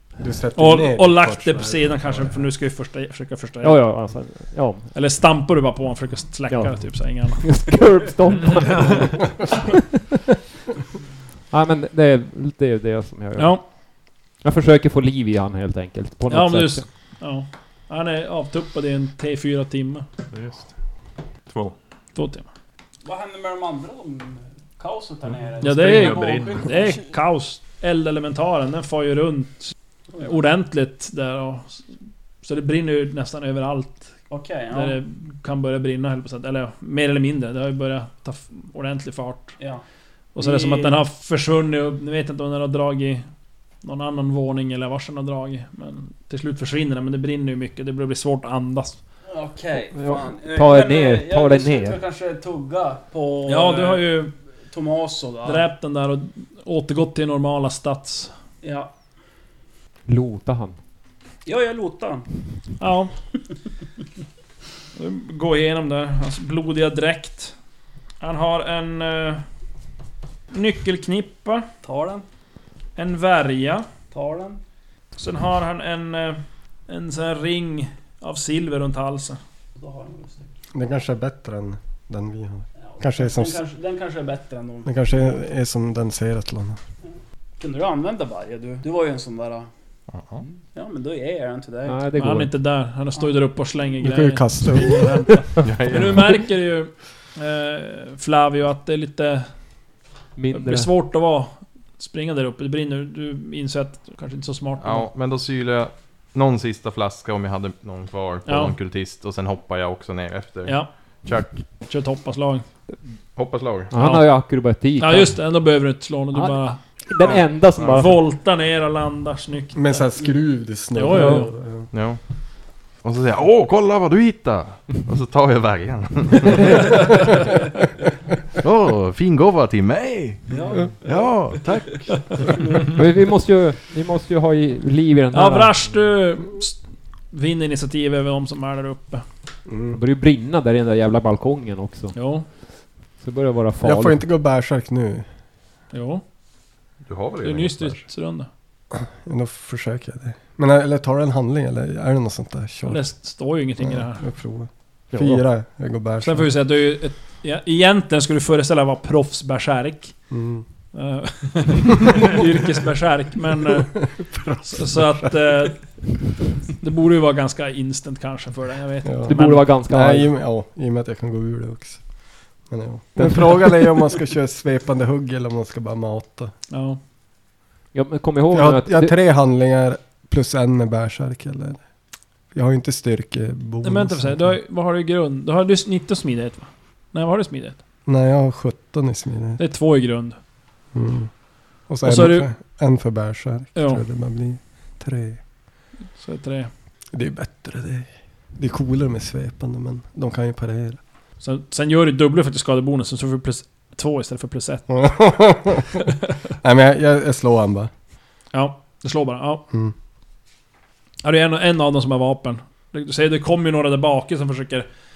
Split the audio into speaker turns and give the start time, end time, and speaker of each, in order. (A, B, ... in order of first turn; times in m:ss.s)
0:00.2-0:02.3 A
0:00.6-0:04.2 B
0:03.6-0:04.9 C
0:04.9-0:07.6 B
0:06.5-0:09.8 C
0:08.3-0:09.0 D
0:11.5-0:16.9 C
0:13.4-0:13.6 B
0:16.3-0:20.0 B
0:20.3-0:20.7 D
0:21.5-0:21.7 D
0:22.1-0:22.5 B
0:23.0-0:27.0 E
0:25.5-0:26.9 D
0:25.6-0:31.8 B
0:32.4-0:34.2 B
0:34.3-0:35.0 E
0:34.7-0:39.6 B
0:40.3-0:43.3 B
0:40.4-0:41.0 E
0:43.8-0:49.0 B
0:49.3-0:54.1 E
0:49.9-0:52.0 C
0:53.5-0:54.3 B
0:54.7-0:55.7 E
0:55.4-0:58.3 B
0:58.6-0:58.9 E
1:00.1-1:00.8 C
1:01.4-1:02.3 E
1:02.8-1:03.1 B
1:05.0-1:07.5 B
1:08.2-1:09.4 B
1:10.5-1:11.7 B
1:11.8-1:12.2 E
1:13.0-1:13.8 B
1:14.1-1:14.6 E
1:15.2-1:19.4 B
1:19.8-1:20.5 E
1:20.7-1:23.6 A
1:22.9-1:25.4 E
1:24.8-1:26.8 A
1:27.6-1:29.7 E
1:30.1-1:30.4 F
1:30.7-1:32.0 E
1:31.8-1:32.5 C
1:32.1-1:39.5 B
1:34.0-1:35.4 A
1:35.6-1:36.5 F
1:40.4-1:40.9 C
1:40.5-1:45.1 B
1:44.8-1:51.6 F
1:48.4-1:48.7 B
1:50.6-1:52.6 B
1:53.3-1:53.9 F
1:53.9-1:55.4 C
1:53.9-2:00.1 B
1:56.3-1:58.2 C
1:59.7-2:01.9 A
2:00.9-2:01.5 B
2:01.0-2:01.5 C
2:01.9-2:02.2 F
2:02.9-2:07.5 F
2:06.9-2:07.2 B
2:08.6-2:12.6 F
2:10.5-2:13.0 E
2:12.9-2:15.8 C
2:15.3-2:19.2 B
2:19.7-2:20.0 A
2:19.9-2:22.6 C
2:22.1-2:22.5 B
2:23.1-2:24.2 C
2:23.8-2:25.3 A
2:25.9-2:26.2 B
2:27.0-2:28.0 F
2:27.4-2:28.5 B
2:28.9-2:33.1 A
2:32.8-2:34.3 B
2:33.8-2:36.5 A
2:35.1-2:35.4 C
2:36.2-2:40.1 B
2:40.3-2:40.6 A
2:40.9-2:46.0 B
2:44.1-2:45.6 A
2:46.8-2:49.7 B
2:49.0-2:56.5 A
2:49.3-2:50.3 C
2:53.2-2:53.9 C
2:56.7-2:57.0 B
2:57.9-2:59.2 C
2:58.5-3:01.8 A
3:02.5-3:04.6 A
3:03.8-3:07.8 B
3:08.0-3:09.6 A
3:09.6-3:10.4 B
3:10.9-3:15.4 A
3:12.0-3:12.5 B
3:13.7-3:14.0 B
3:16.2-3:16.7 B
3:17.1-3:21.0 A
3:21.4-3:25.2 B
3:25.0-3:25.9 A
3:26.6-3:27.9 A
3:28.5-3:29.6 B
3:31.2-3:34.9 B